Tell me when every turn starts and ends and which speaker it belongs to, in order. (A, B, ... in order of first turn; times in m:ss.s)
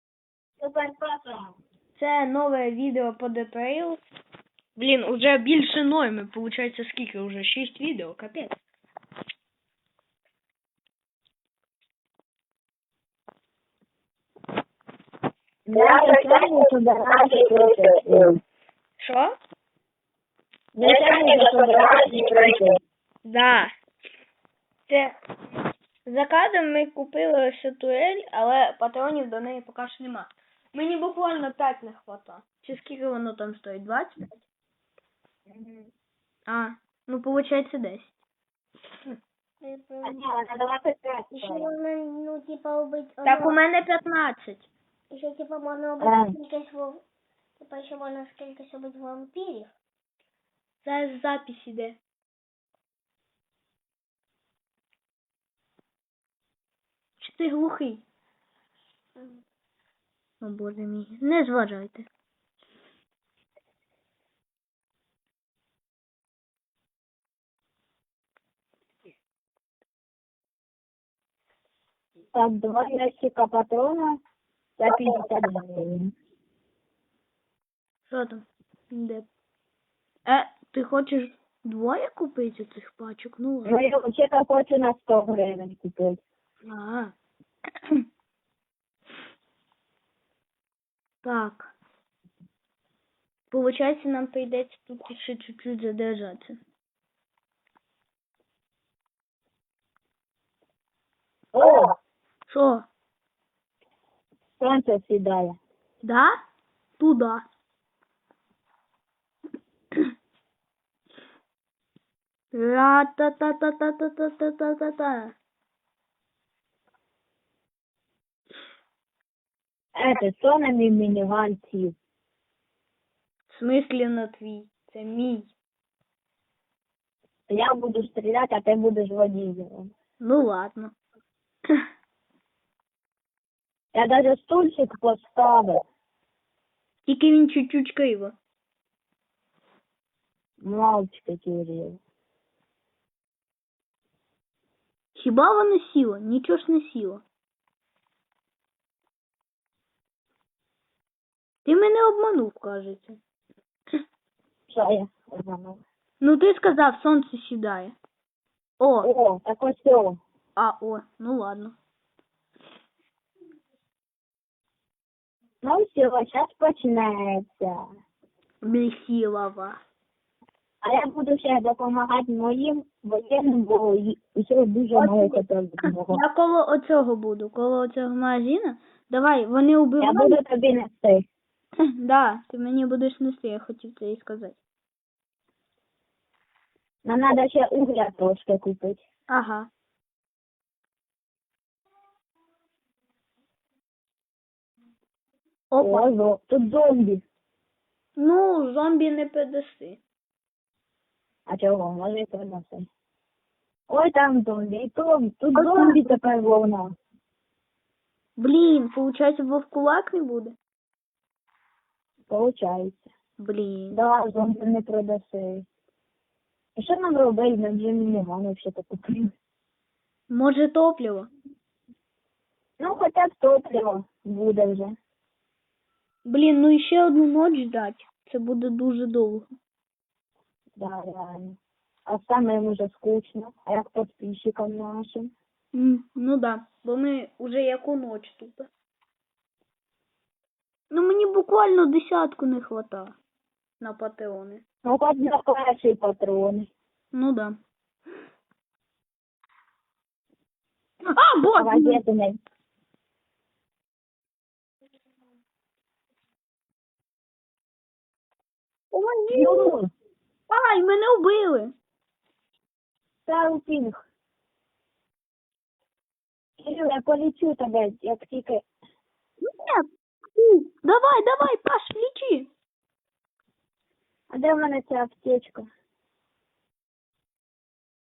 0:00.6-0:01.5 A
0:01.9-0:04.0 B
0:04.8-0:08.5 B
0:15.6-0:18.4 A
0:19.0-0:19.4 B
0:20.7-0:22.8 A
0:23.2-0:23.7 B
0:24.9-0:25.2 B
0:26.0-0:34.4 B
0:35.5-0:35.9 A
0:36.5-0:38.2 B
0:39.6-0:40.1 C
0:40.0-0:41.7 A
0:41.3-0:43.6 C
0:43.2-0:44.7 B
0:45.1-0:47.0 C
0:46.0-0:46.4 A
0:47.6-0:49.7 C
0:50.8-0:52.0 B
0:57.2-0:58.0 B
1:00.4-1:02.1 B
1:12.3-1:14.2 A
1:14.8-1:16.1 A
1:18.1-1:19.3 B
1:20.2-1:23.8 B
1:23.6-1:26.2 A
1:26.7-1:27.1 B
1:31.2-1:31.7 B
1:33.5-1:36.6 B
1:41.5-1:41.9 A
1:42.5-1:42.9 B
1:44.6-1:45.6 A
1:46.0-1:46.4 B
1:47.0-1:47.4 B
1:52.5-1:55.3 B
2:00.0-2:01.9 A
2:03.5-2:05.5 B
2:07.5-2:09.9 A
2:10.2-2:10.9 B
2:13.9-2:15.8 A
2:17.0-2:18.3 B
2:20.6-2:22.0 A
2:25.1-2:27.2 B
2:31.6-2:33.2 B
2:34.7-2:35.8 A
2:36.2-2:38.0 B
2:38.8-2:39.1 B
2:39.0-2:40.2 A
2:40.6-2:41.8 B
2:45.6-2:47.8 A
2:48.6-2:49.8 B
2:50.8-2:56.2 A
2:55.0-2:55.4 B
2:56.1-3:00.4 B
3:00.0-3:01.2 A
3:02.0-3:04.6 B
3:07.0-3:09.0 A
3:09.3-3:09.7 B
3:15.7-3:16.0 B
3:15.8-3:17.2 A
3:18.2-3:20.0 B
3:21.5-3:22.9 A
3:23.9-3:26.9 A
3:25.5-3:26.1 B
3:28.4-3:30.6 B
3:32.3-3:33.1 A
3:33.4-3:34.0 B
3:33.9-3:35.6 A
3:36.8-3:39.3 A
3:40.3-3:41.3 B
3:42.8-3:44.9 A
3:46.2-3:49.5 B
3:50.8-3:55.3 A
3:55.7-3:58.7 B
4:00.9-4:03.2 B
4:03.8-4:04.6 B
4:04.8-4:06.7 A
4:07.1-4:07.6 B
4:11.1-4:12.0 B
4:11.6-4:12.4 A
4:18.9-4:19.7 B
4:19.3-4:19.9 A
4:20.5-4:21.7 B
4:23.3-4:24.0 A
4:26.6-4:28.6 A
4:29.4-4:32.5 B
4:34.3-4:35.7 A